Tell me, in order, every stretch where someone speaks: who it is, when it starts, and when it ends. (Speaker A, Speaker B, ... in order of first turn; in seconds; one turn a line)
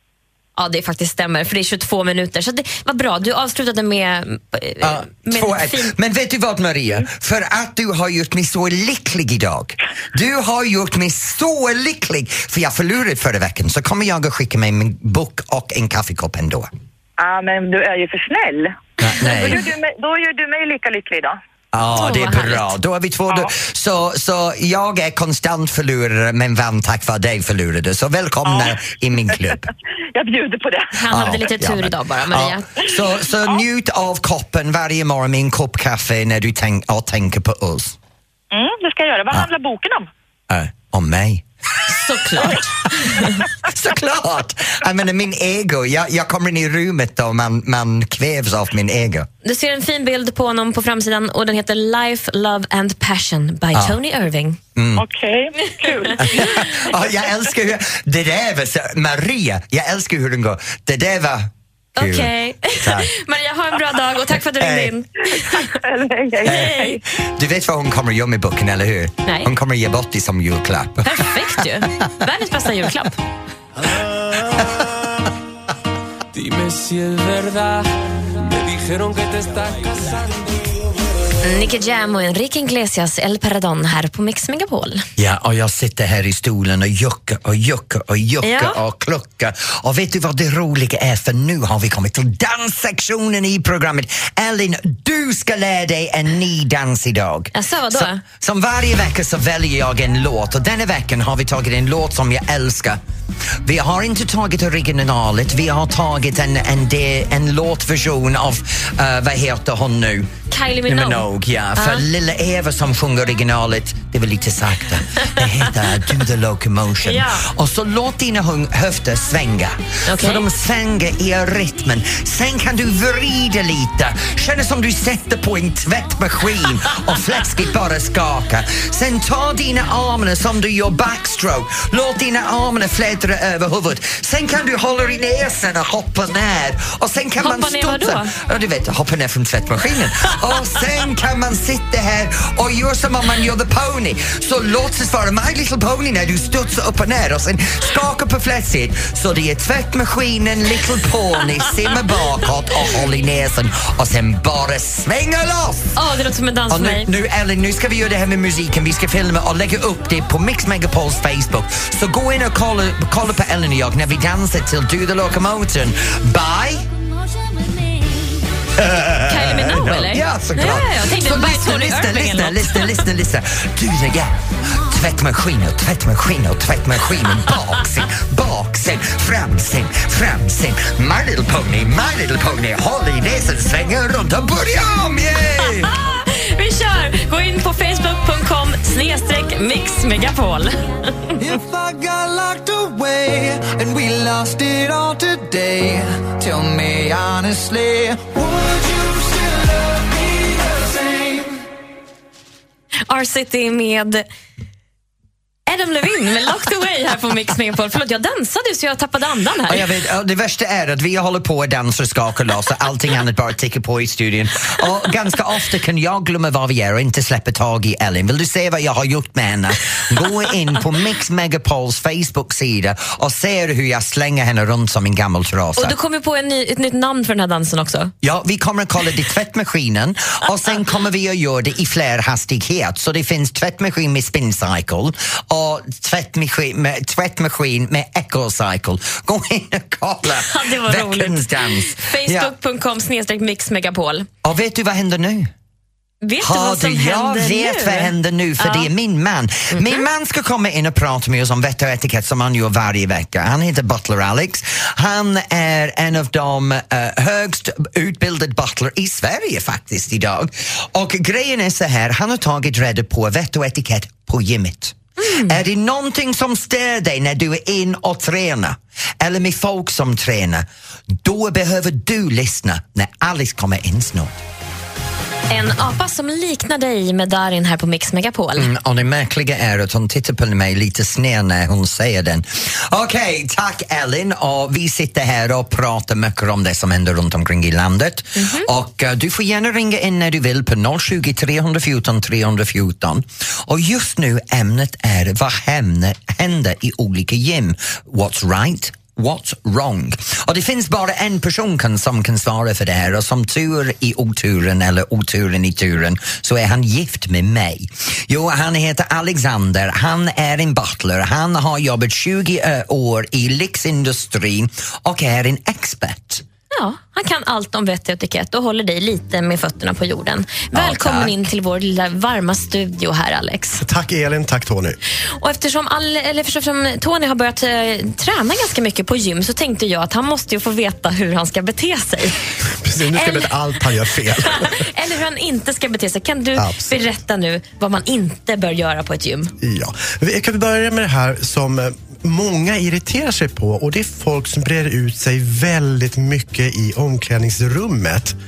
Speaker A: 0.6-5.9
Speaker B: 4.8-16.7
Speaker C: 17.2-21.4
Speaker B: 19.0-19.6
Speaker B: 21.7-29.7
Speaker A: 21.9-22.7
Speaker C: 28.4-28.8
Speaker C: 30.1-30.9
Speaker A: 30.9-32.7
Speaker B: 31.1-38.0
Speaker C: 38.5-40.1
Speaker B: 40.5-41.5
Speaker A: 41.9-43.3
Speaker B: 42.3-49.3
Speaker A: 49.4-54.6
Speaker B: 54.8-55.0
Speaker C: 55.0-56.7
Speaker A: 55.9-56.7
Speaker B: 56.2-63.1
Speaker A: 62.0-65.7
Speaker B: 64.6-64.9
Speaker C: 65.6-67.0
Speaker A: 66.4-67.0
Speaker B: 66.5-71.3
Speaker A: 69.3-69.5
Speaker A: 71.0-73.2
Speaker B: 74.5-74.8
Speaker D: 76.4-77.6
Speaker D: 78.6-80.3
Speaker A: 81.4-85.1
Speaker B: 85.2-103.0
Speaker A: 88.4-88.8
Speaker A: 97.5-98.2
Speaker B: 103.6-110.3
Speaker A: 110.5-112.0
Speaker B: 110.9-156.0
Speaker A: 117.0-117.5
Speaker A: 120.1-120.5
Speaker A: 137.4-138.3
Speaker A: 156.0-157.1
Speaker B: 156.7-166.9
Speaker B: 168.8-185.9
Speaker A: 169.2-173.0
Speaker A: 185.7-191.4
Speaker B: 191.4-199.6
Speaker B: 200.4-201.5
Speaker A: 203.1-204.2
Speaker A: 205.7-209.9
Speaker B: 209.7-225.9
Speaker A: 225.8-228.1
Speaker B: 228.2-242.5
Speaker A: 240.3-244.3
Speaker B: 244.4-245.5
Speaker A: 246.2-248.9
Speaker B: 246.4-270.7
Speaker A: 249.7-250.0
Speaker A: 265.2-265.6
Speaker B: 271.2-274.4
Speaker A: 275.5-278.7
Speaker B: 278.6-316.4
Speaker A: 288.4-288.7
Speaker A: 316.8-323.8
Speaker B: 320.7-321.3
Speaker E: 323.8-325.0
Speaker A: 325.4-332.4
Speaker E: 332.8-334.9
Speaker A: 333.1-333.5
Speaker A: 334.5-339.5
Speaker E: 336.6-337.0
Speaker E: 339.6-348.4